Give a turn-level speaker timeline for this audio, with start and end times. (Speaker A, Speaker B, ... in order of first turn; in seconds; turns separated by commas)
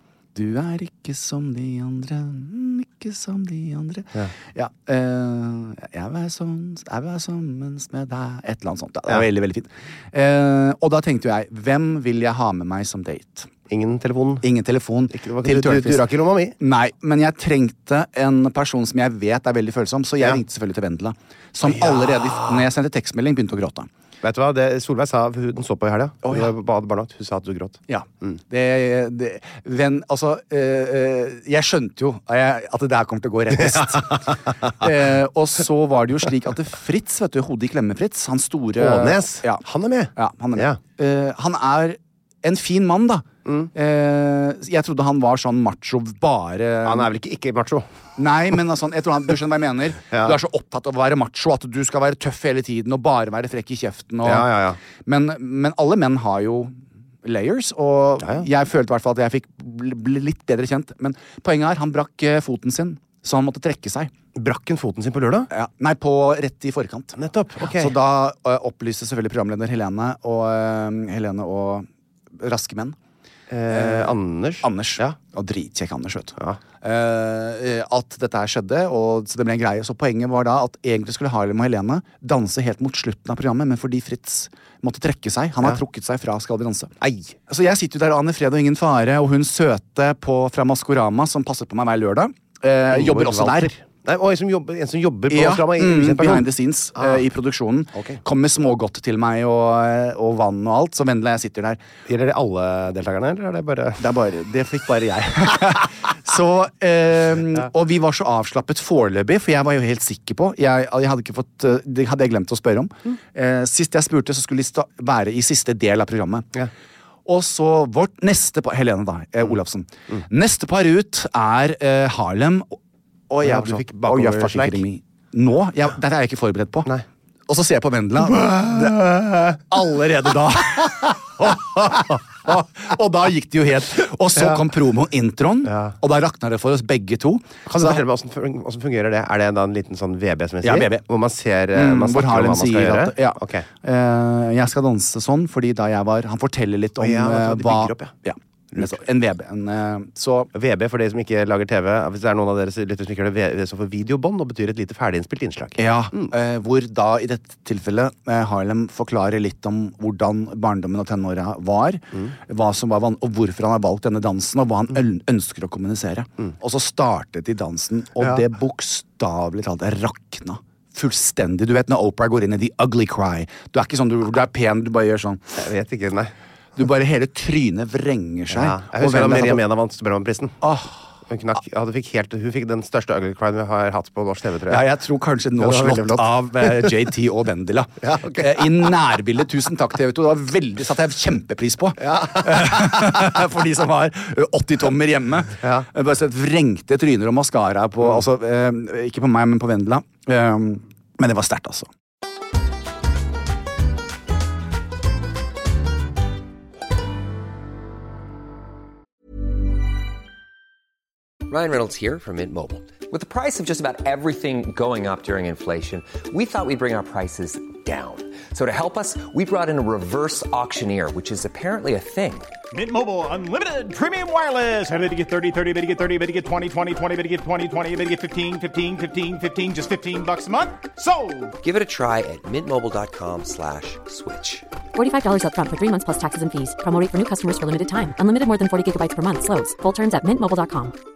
Speaker A: 0.3-13.5, Speaker B: 13.7-14.4, Speaker A: 14.4-16.0, Speaker B: 15.1-16.6, Speaker A: 16.6-23.9, Speaker B: 21.6-22.7, Speaker B: 24.2-28.4, Speaker A: 26.2-26.5, Speaker A: 27.9-39.6, Speaker B: 33.5-34.4, Speaker B: 38.8-40.8, Speaker A: 40.2-47.1, Speaker B: 43.5-43.7, Speaker B: 46.8-47.9, Speaker A: 48.2-64.1, Speaker B: 50.1-50.4, Speaker B: 54.2-54.8, Speaker B: 58.2-58.5, Speaker B: 64.3-65.5, Speaker A: 65.5-73.0, Speaker B: 67.2-68.0, Speaker B: 73.5-75.2, Speaker A: 73.7-86.9, Speaker B: 87.0-87.4, Speaker A: 87.5-93.8, Speaker B: 92.9-97.2, Speaker A: 95.3-101.8, Speaker B: 97.9-98.2, Speaker B: 102.1-104.0, Speaker A: 104.0-116.5, Speaker A: 117.3-122.8, Speaker A: 123.3-126.9, Speaker B: 123.4-124.9, Speaker A: 127.5-138.0, Speaker B: 128.3-129.0, Speaker B: 131.4-132.1, Speaker B: 134.3-134.6, Speaker B: 135.6-136.0, Speaker B: 137.7-143.7, Speaker A: 140.6-141.1, Speaker A: 141.8-150.5, Speaker B: 147.0-148.1, Speaker B: 148.7-149.0, Speaker B: 150.5-156.3, Speaker A: 155.8-175.5, Speaker B: 168.2-168.5, Speaker B: 175.6-176.3, Speaker A: 176.8-179.6, Speaker B: 178.5-180.7, Speaker A: 180.6-181.0, Speaker B: 181.3-184.9, Speaker A: 184.7-201.9, Speaker B: 185.6-187.0, Speaker B: 188.0-188.9, Speaker B: 192.0-193.0, Speaker B: 195.6-195.9, Speaker C: 211.5-222.5, Speaker D: 222.7-231.6, Speaker C: 231.6-234.7, Speaker E: 234.9-240.9